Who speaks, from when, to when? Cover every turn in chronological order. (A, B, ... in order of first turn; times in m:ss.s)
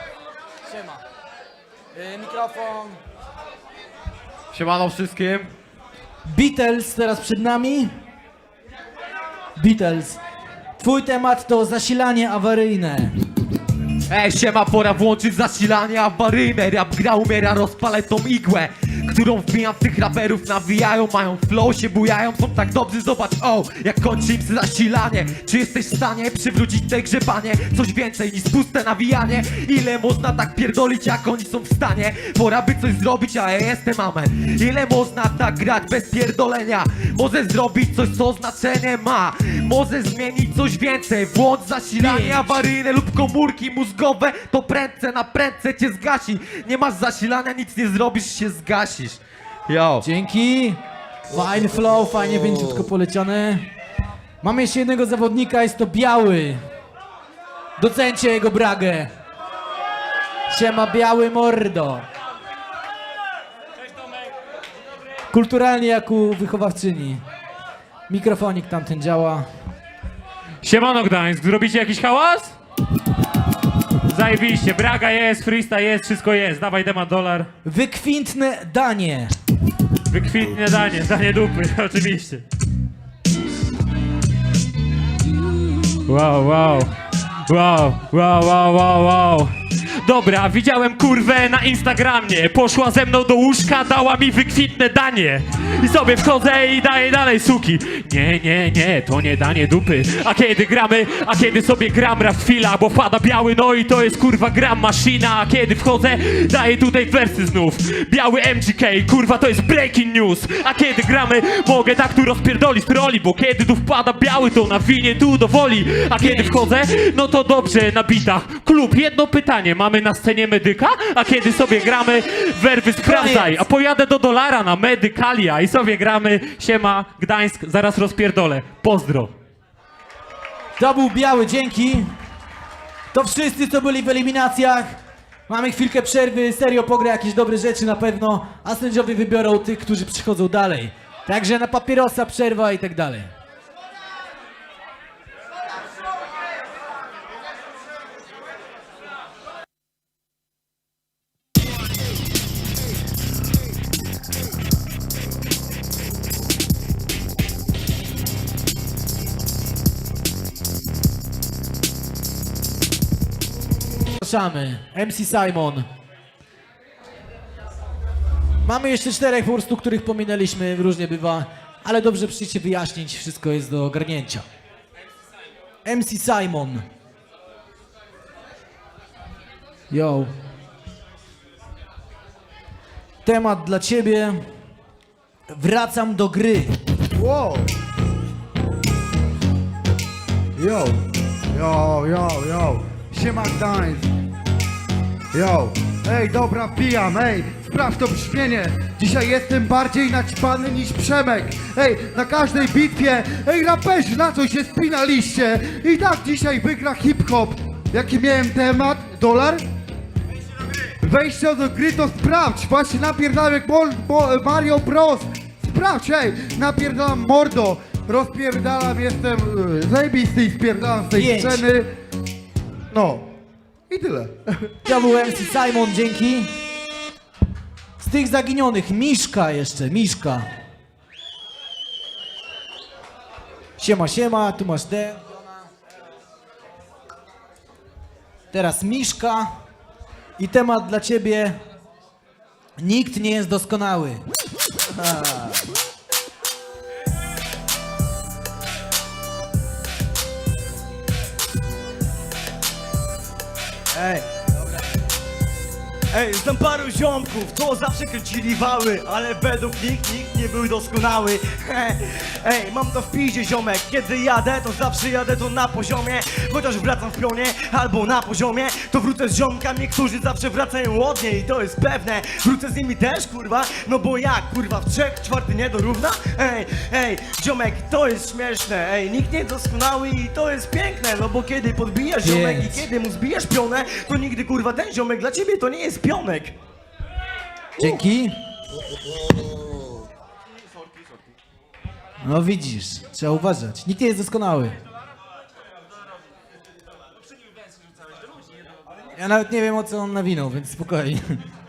0:00.7-0:01.0 A
0:01.9-0:03.0 A
0:04.5-0:05.4 B
0:06.3-0:07.9 A
0:09.6-0:10.2 A
0:10.8-0:13.1 A
0:14.1-0:50.0 C
0:42.0-0:42.4 A
0:50.0-0:53.7 A
0:54.4-0:56.6 A
0:57.8-0:59.1 A
1:00.5-1:02.0 A
1:05.3-1:07.2 A
1:08.1-1:09.4 A
1:10.6-1:12.5 B
1:14.1-1:17.5 B
1:17.6-1:19.3 A
1:20.1-1:22.4 B
1:26.1-1:26.9 B
1:27.5-1:29.5 B
1:30.0-2:09.3 B
1:56.2-1:56.6 A
2:03.0-2:03.6 A
2:10.8-2:12.1 A
2:13.1-2:14.9 A
2:15.5-2:23.3 A
2:44.2-2:45.9 A
2:48.6-2:54.4 A
2:55.8-2:56.8 A
2:59.9-3:00.3 A
3:03.2-3:04.4 A
3:05.5-3:06.7 A
3:07.1-3:07.7 D
3:10.6-3:11.0 D
3:11.5-3:14.1 D
3:15.3-3:29.6 D
3:31.0-3:41.9 D
3:41.1-3:41.6 A
3:42.9-3:43.3 D
3:43.9-3:44.6 D
3:44.8-3:46.5 A
3:48.0-3:50.4 A
3:53.8-3:55.6 A
3:58.5-3:59.5 A
4:00.4-4:01.6 A
4:02.8-4:04.2 A
4:04.9-4:05.6 A
4:13.9-4:14.2 A
4:16.1-4:46.6 E
4:42.2-4:42.9 A
4:47.8-4:48.3 A
4:52.2-4:54.8 A
4:59.1-5:01.4 A